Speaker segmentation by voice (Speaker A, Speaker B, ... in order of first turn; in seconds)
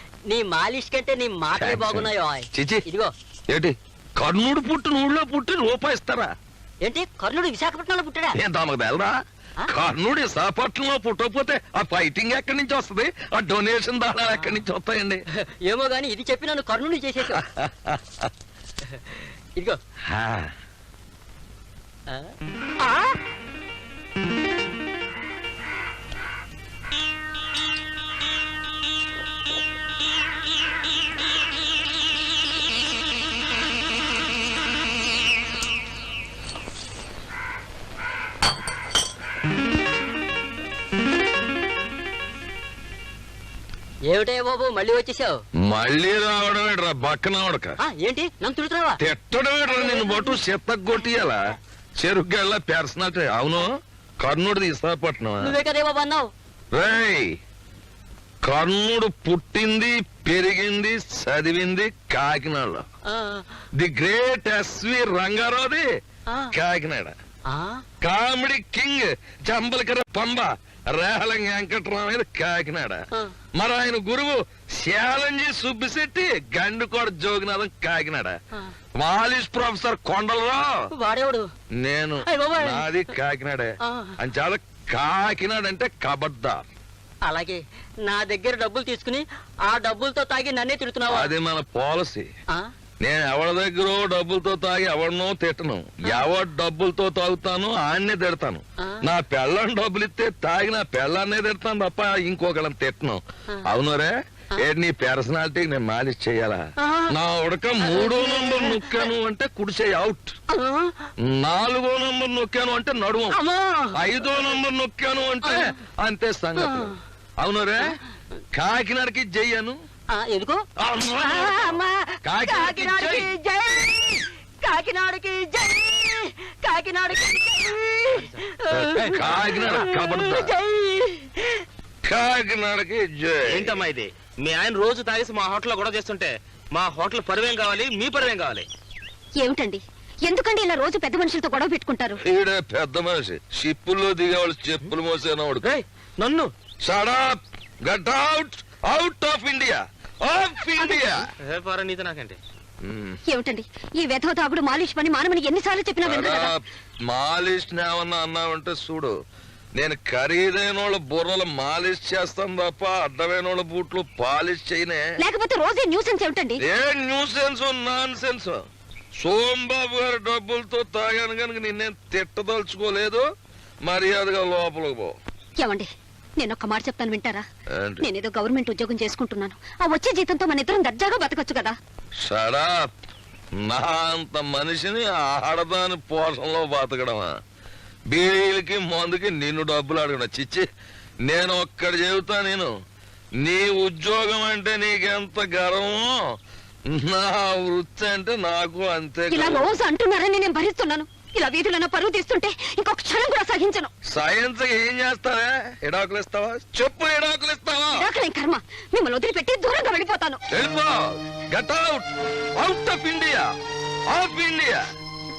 Speaker A: 0.3-3.1, 6.8-8.4, 14.3-14.6, 15.6-17.4, 44.1-45.4, 47.8-49.0, 49.7-50.4, 55.4-56.3, 63.1-63.4, 67.5-67.8, 81.0-81.5, 82.3-83.1, 83.9-84.1, 87.2-91.3, 106.8-107.1, 107.8-109.1, 110.5-110.9, 113.3-114.2, 116.6-116.9, 120.1-120.6, 121.2-131.6
Speaker B: 1.6-2.8, 3.5-6.3, 8.3-9.1, 9.7-15.2, 17.3-18.2, 20.1-20.5, 45.6-47.8, 49.0-51.4, 52.0-53.7, 54.2-55.5, 56.7-57.3, 58.4-62.8, 63.8-65.8, 66.5-67.1, 68.0-73.0, 73.5-78.3, 79.0-80.7, 81.8-86.6, 91.1-92.2, 93.0-104.1, 104.6-106.6, 107.1-110.3, 111.2-113.4, 113.9-118.0, 118.5-119.8, 120.8-123.3, 128.7-130.5, 132.1-133.8, 142.2-145.7, 146.8-151.3, 152.8-153.2, 156.0-159.1, 159.8-165.0, 166.7-168.6, 169.2-173.2, 173.8-175.1, 177.7-178.1, 182.2-182.9, 183.7-187.3, 188.1-190.6, 191.3-192.7, 193.4-196.1, 196.9-199.8, 204.1-208.1, 210.5-213.4, 214.1-214.8
Speaker C: 133.9-138.6
Speaker D: 139.4-142.1, 153.3-156.5, 165.2-166.6, 175.6-175.8, 176.4-177.4, 178.0-181.8, 199.3-203.9, 208.0-210.4